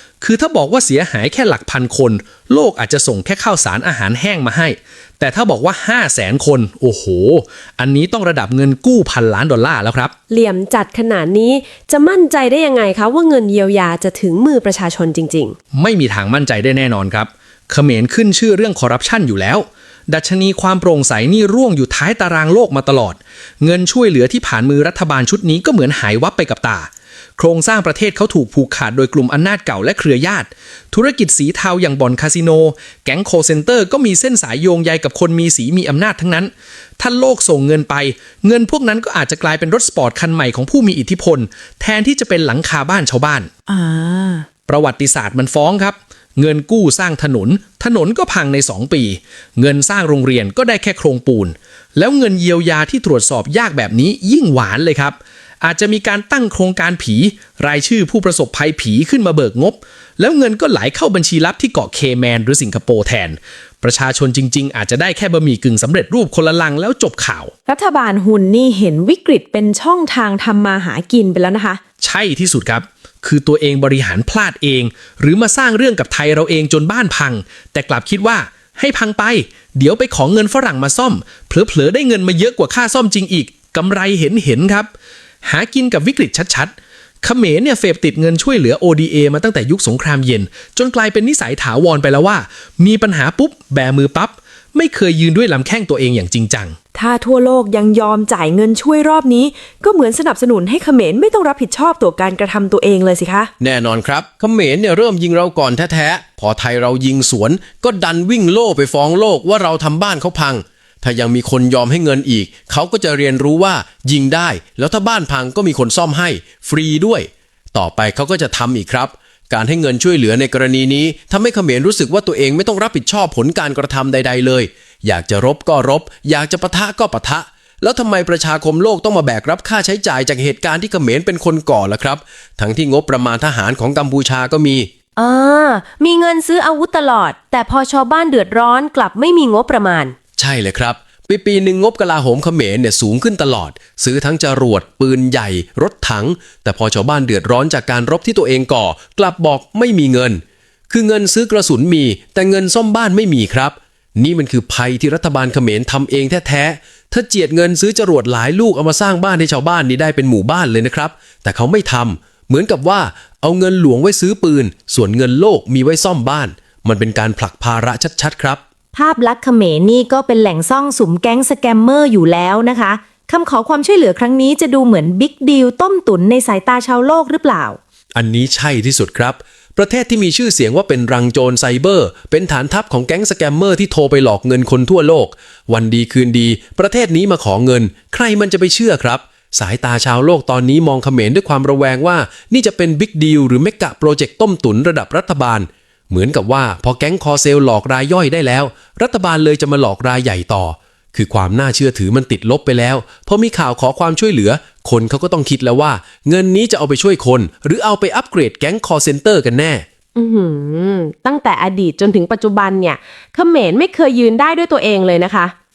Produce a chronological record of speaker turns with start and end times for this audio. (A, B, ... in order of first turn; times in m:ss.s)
0:00.2-0:10.1 A
0:10.3-0:15.6 B
0:15.8-0:43.5 A
0:44.0-0:44.4 B
0:44.7-1:07.5 A
1:07.7-1:11.8 B
1:12.0-1:24.9 A
1:25.4-1:36.8 A
1:37.0-1:43.5 B
1:37.0-1:37.7 C
1:43.6-2:14.9 D
2:15.2-2:20.2 E
2:20.4-2:48.6 D
2:48.9-2:57.8 E
2:58.1-3:29.9 D
3:30.3-3:32.9 C
3:31.2-3:33.6 B
3:33.4-3:35.4 C